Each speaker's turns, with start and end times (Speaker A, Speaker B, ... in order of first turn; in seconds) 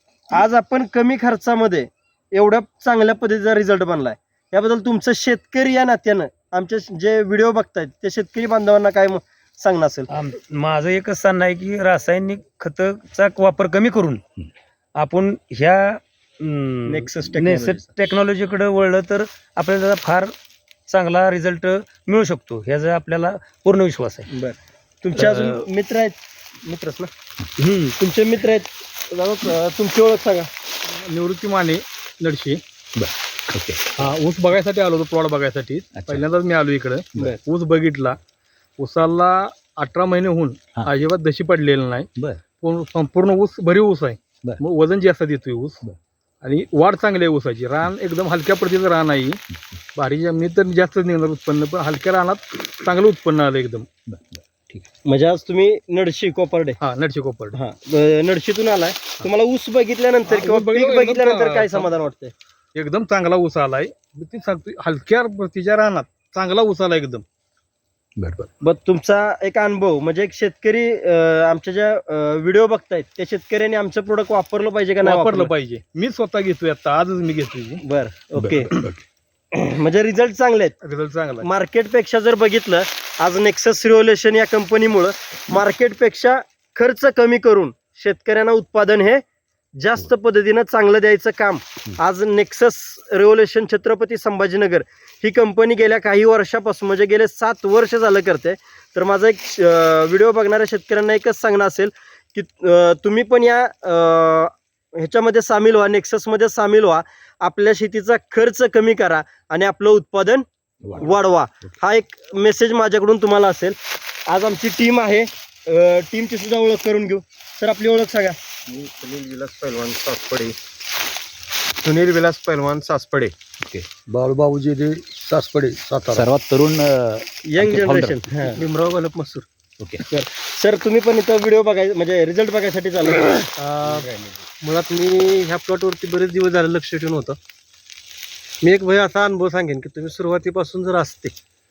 Speaker A: 0.3-10.1, 16.9-17.9, 24.3-27.1, 28.0-30.5, 55.1-56.8, 57.5-62.3, 68.6-75.5, 77.8-78.7, 79.5-80.8, 81.4-89.2, 89.8-120.5, 127.5-128.6, 130.1-133.4
Speaker B: 10.1-14.2, 14.9-20.3, 20.9-24.3, 25.1-25.6, 27.6-27.9, 124.1-126.2
Speaker C: 30.9-32.6, 34.0-38.2, 38.8-42.1, 42.6-45.8, 46.4-49.4, 49.9-53.9, 56.8-57.5, 60.2-61.9, 62.8-67.2, 68.2-68.5, 75.0-77.8, 78.4-79.0, 80.8-81.4
Speaker D: 33.0-33.8, 35.9-36.2, 54.1-54.8, 110.8-111.2, 123.6-123.9, 126.1-128.2
Speaker E: 118.9-119.9, 121.8-123.3, 128.4-129.4, 133.6-137.4, 138.6-141.3